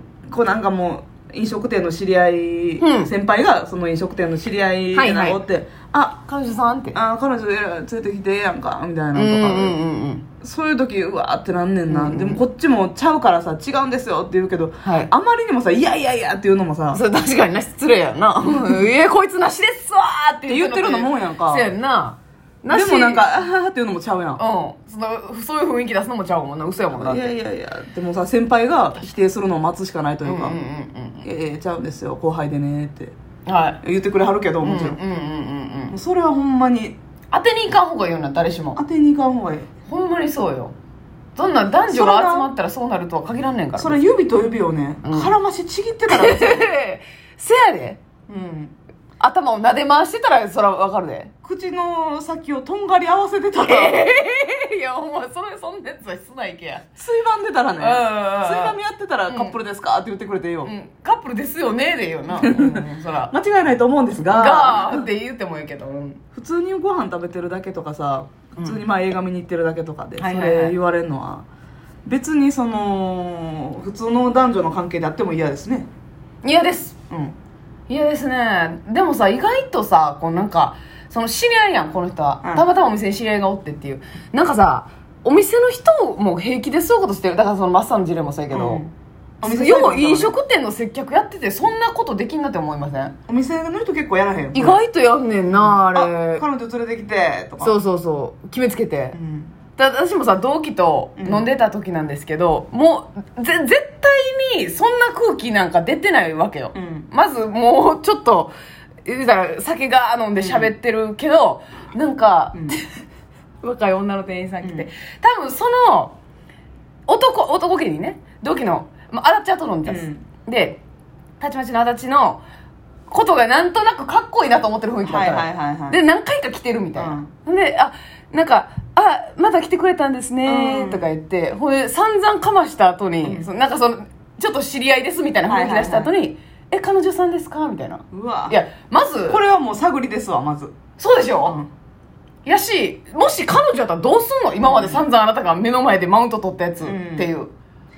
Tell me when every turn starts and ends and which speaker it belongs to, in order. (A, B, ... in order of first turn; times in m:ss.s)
0:00.2-0:06.2 A
0:02.8-0:03.1 B
0:04.9-0:05.4 B
0:06.3-0:07.0 B
0:06.9-0:09.8 A
0:09.1-0:10.2 B
0:10.4-0:17.0 A
0:11.9-0:12.4 B
0:14.8-0:15.1 B
0:16.9-0:23.3 B
0:20.5-0:21.7 A
0:22.7-0:24.4 A
0:24.4-0:27.3 B
0:26.9-0:30.6 A
0:30.2-0:31.2 B
0:31.2-0:33.1 A
0:33.4-0:33.8 B
0:33.8-0:35.0 A
0:34.6-0:35.9 B
0:35.9-0:37.0 A
0:37.3-0:38.8 B
0:38.8-0:39.7 A
0:39.8-0:40.7 B
0:41.4-0:44.0 B
0:41.9-0:42.5 A
0:43.8-0:46.7 A
0:45.0-0:45.3 B
0:46.1-0:48.0 B
0:48.3-0:48.7 A
0:49.2-0:51.3 B
0:51.4-0:54.1 A
0:53.6-0:56.9 B
0:57.0-1:00.7 A
0:57.8-0:58.8 B
0:59.3-0:59.6 B
1:00.6-1:03.3 B
1:02.3-1:05.1 A
1:04.3-1:06.2 B
1:06.3-1:11.4 A
1:10.2-1:10.8 B
1:12.0-1:15.9 A
1:16.4-1:17.0 B
1:17.9-1:28.8 B
1:28.5-1:28.9 A
1:29.4-1:30.3 A
1:29.4-1:33.2 B
1:33.3-1:34.8 A
1:34.5-1:36.4 B
1:35.5-1:37.8 A
1:37.6-1:39.2 B
1:39.1-1:39.5 A
1:39.8-1:48.5 B
1:41.2-1:41.5 A
1:46.7-1:47.1 A
1:49.0-1:52.9 B
1:50.4-1:50.7 A
1:53.6-1:56.2 B
1:54.6-1:54.9 A
1:57.1-2:00.8 B
1:59.8-2:00.2 A
2:01.4-2:02.4 B
2:03.1-2:19.4 B
2:05.0-2:06.0 A
2:07.0-2:07.3 A
2:10.4-2:11.1 A
2:13.2-2:13.5 A
2:15.5-2:16.1 A
2:18.1-2:18.6 A
2:19.3-2:20.7 A
2:21.0-2:21.6 B
2:21.4-2:21.7 A
2:22.4-2:27.5 B
2:24.6-2:25.0 A
2:26.8-2:27.3 A